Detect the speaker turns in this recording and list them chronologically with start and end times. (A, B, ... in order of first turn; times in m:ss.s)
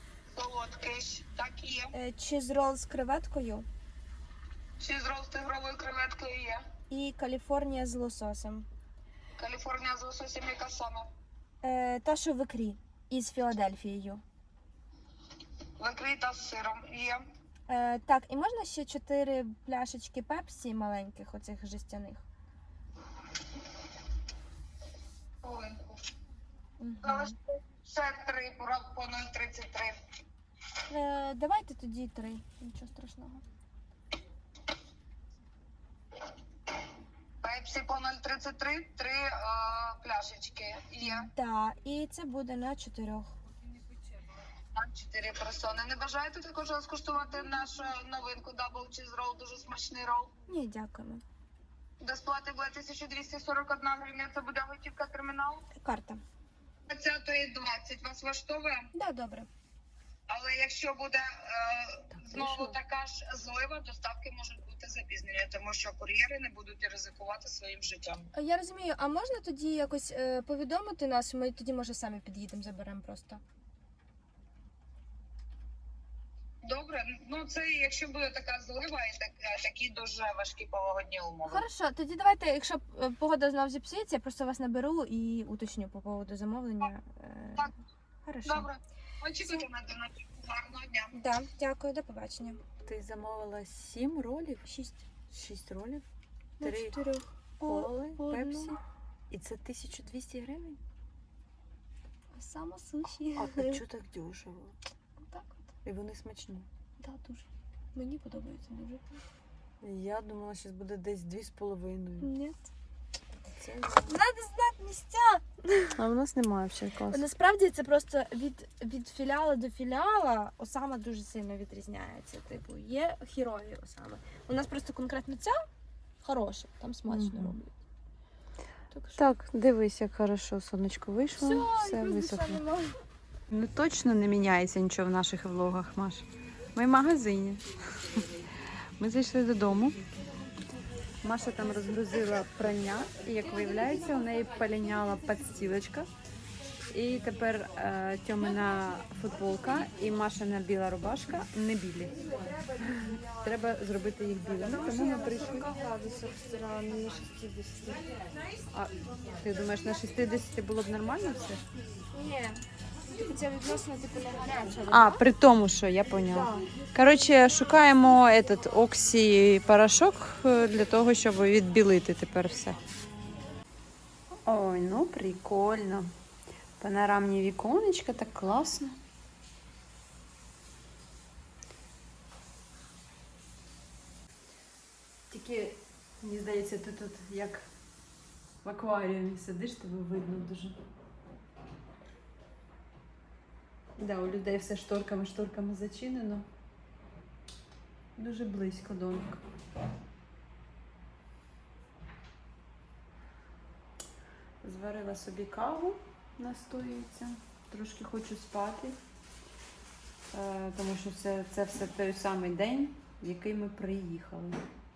0:00.4-0:01.9 A
0:01.9-0:03.7 B
0:04.8-0:06.6 A
0:06.9-0:08.7 B
0:09.4-0:11.1 A
0:11.6-0:14.2 B
0:15.8-0:17.2 A
0:17.7-0:22.2 B
0:25.4-0:26.0 A
0:26.8-0:27.4 B
0:27.0-0:29.9 A
0:30.9-0:33.4 B
0:37.4-0:41.3 A
0:41.0-0:43.4 B
0:44.7-0:50.3 A
0:50.5-0:51.2 B
0:52.0-0:55.6 A
0:55.7-0:56.2 B
0:56.9-0:58.8 A
0:58.9-0:59.5 B
1:00.3-1:08.3 A
1:02.2-1:02.7 C
1:08.3-1:13.4 B
1:16.7-1:21.6 A
1:21.5-1:27.7 B
1:28.2-1:28.7 B
1:28.4-1:31.1 A
1:31.1-1:32.6 B
1:32.8-1:34.7 C
1:34.7-1:35.0 B
1:35.3-1:36.0 C
1:36.6-1:38.8 B
1:36.6-1:37.0 C
1:37.6-1:38.8 C
1:39.3-1:40.8 C
1:42.3-1:43.8 B
1:43.4-1:44.8 C
1:45.2-1:45.7 B
1:45.8-1:46.7 C
1:47.9-1:49.2 B
1:49.8-1:52.3 C
1:52.2-1:52.7 B
1:53.6-1:54.2 C
1:54.1-1:56.0 B
1:56.0-1:57.3 C
1:57.1-2:05.6 B
2:06.2-2:07.7 B
2:07.1-2:07.6 C
2:08.9-2:09.3 B
2:09.2-2:12.6 C
2:11.4-2:13.0 B
2:13.5-2:18.4 C
2:19.0-2:20.0 C
2:21.2-2:26.1 C
2:23.4-2:25.3 B
2:26.9-2:32.2 C
2:32.1-2:33.3 B
2:33.3-2:35.7 C
2:34.6-2:38.4 B
2:38.7-2:41.6 C
2:42.1-2:45.3 B
2:44.9-2:52.8 C
2:46.2-2:46.7 B
2:54.5-2:56.1 C
2:56.8-2:59.0 C
3:05.3-3:07.7 C
3:08.6-3:10.8 C
3:14.0-3:16.5 C
3:18.2-3:19.4 C
3:24.6-3:29.0 C
3:30.3-3:34.6 C